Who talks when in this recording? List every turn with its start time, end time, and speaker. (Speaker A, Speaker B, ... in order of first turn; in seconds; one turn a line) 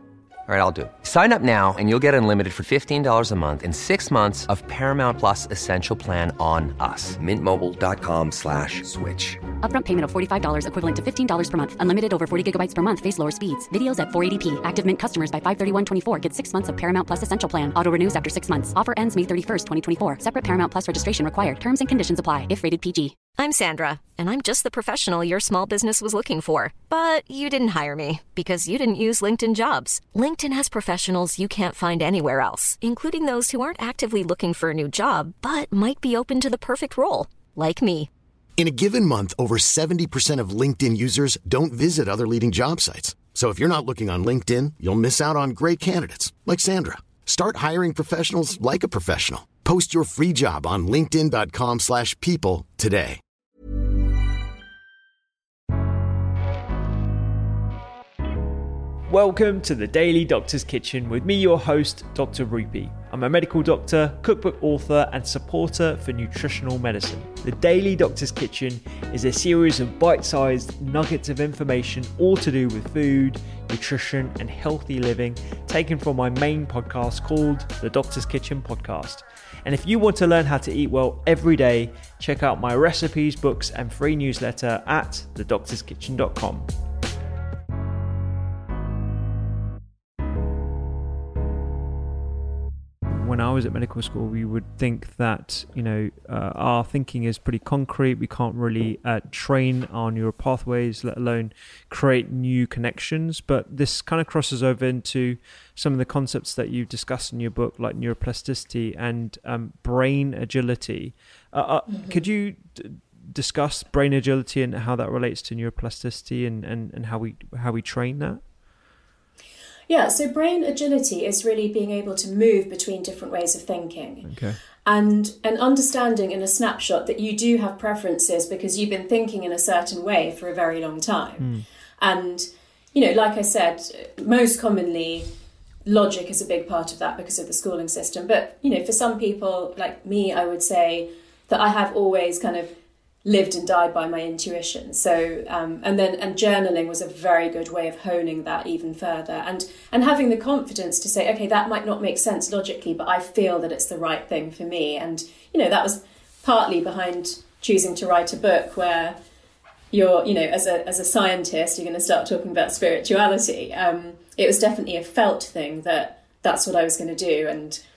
Speaker A: 0.5-9.4
Speaker B: 9.6-23.2
Speaker C: 23.3-38.1
Speaker D: 38.6-53.2
Speaker E: 59.1-86.7
Speaker E: 93.2-118.4
Speaker F: 111.9-112.2
Speaker F: 119.9-124.3
Speaker E: 124.2-124.6
Speaker F: 124.8-135.3
Speaker F: 135.8-142.7
Speaker F: 143.2-159.2
Speaker F: 159.9-167.8